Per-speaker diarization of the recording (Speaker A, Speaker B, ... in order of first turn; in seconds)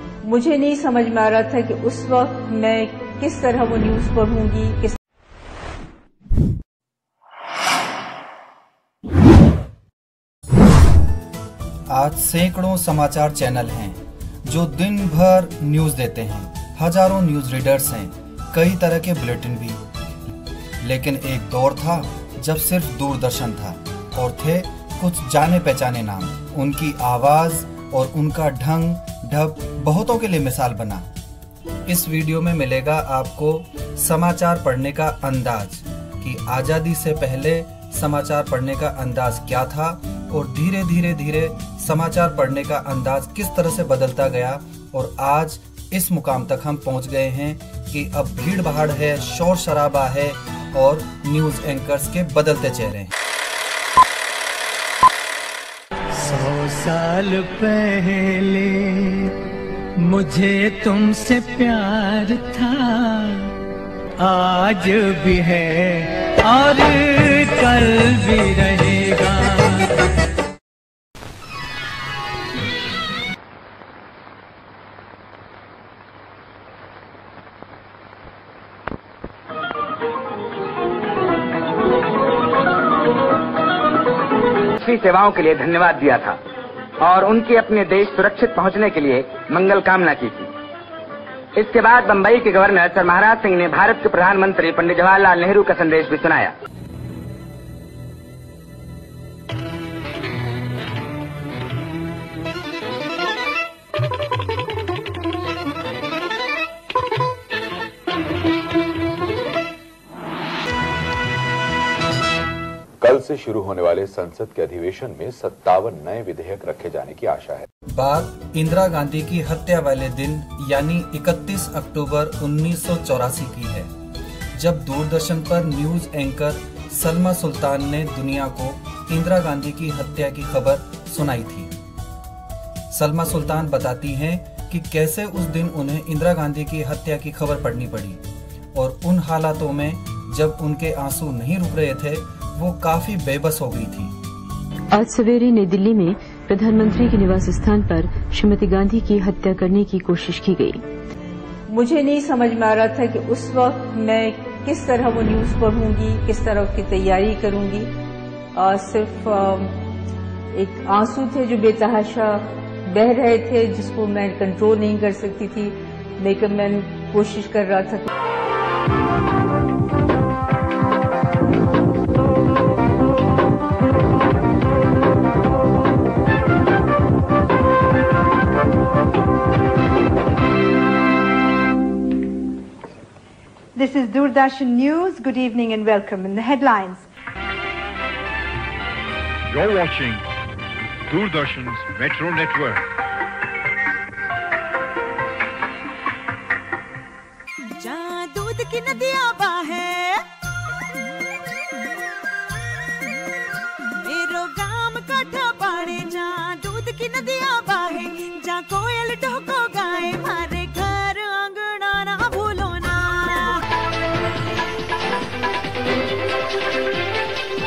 Speaker A: 0.2-5.0, 151.7-157.9, 158.6-159.8, 160.5-168.1
Speaker B: 11.9-19.8, 20.8-31.1, 31.9-53.1, 117.9-123.9, 124.6-131.7, 132.9-138.2, 138.7-144.2
Speaker C: 56.2-59.3, 60.0-63.5, 64.2-69.9
Speaker D: 84.8-86.4, 87.0-90.5, 91.5-96.5
Speaker E: 113.0-117.7
Speaker F: 144.9-150.8
Speaker G: 183.8-187.1
Speaker H: 189.5-190.2, 191.1-192.8
Speaker I: 197.8-200.2, 204.0-213.6